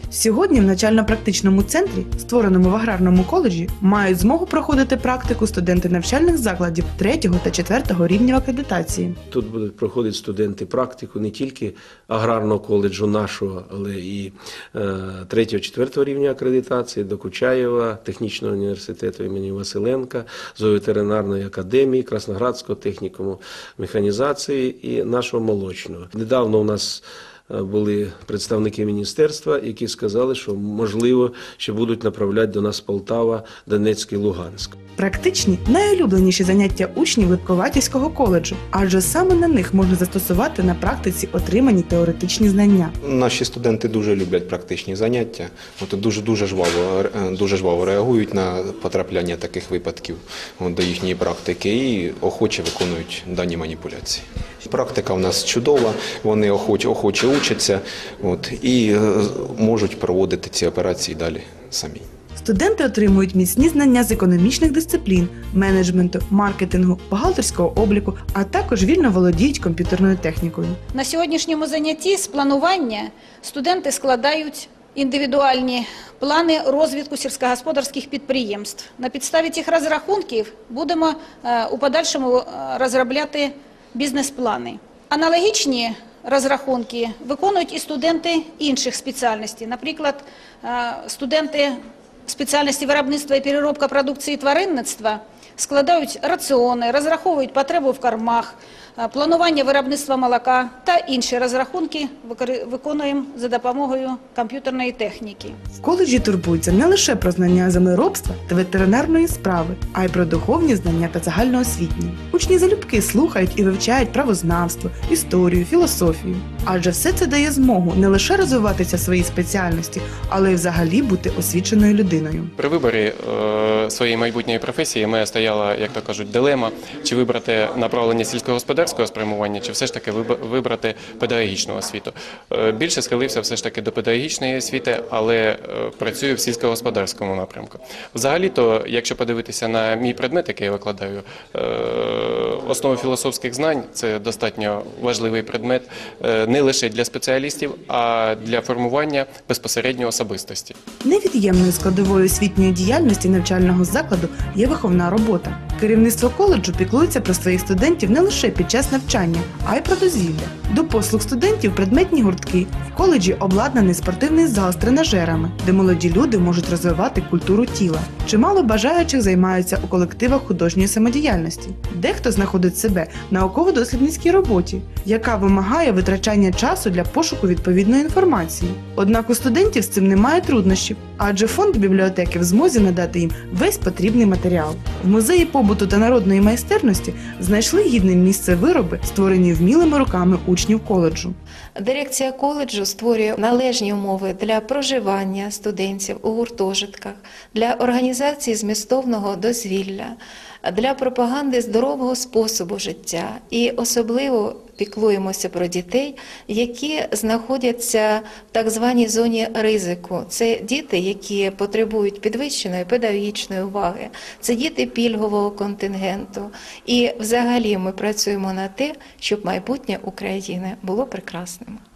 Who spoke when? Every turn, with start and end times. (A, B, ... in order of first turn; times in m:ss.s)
0:00.1-0:09.2 A
0:09.3-0:34.8 B
0:35.0-0:42.9 A
0:43.0-1:02.0 C
1:02.3-1:10.8 A
1:10.9-1:45.6 D
1:45.8-2:02.5 A
2:02.6-2:30.8 E
2:31.0-3:11.4 A
3:11.8-3:41.8 F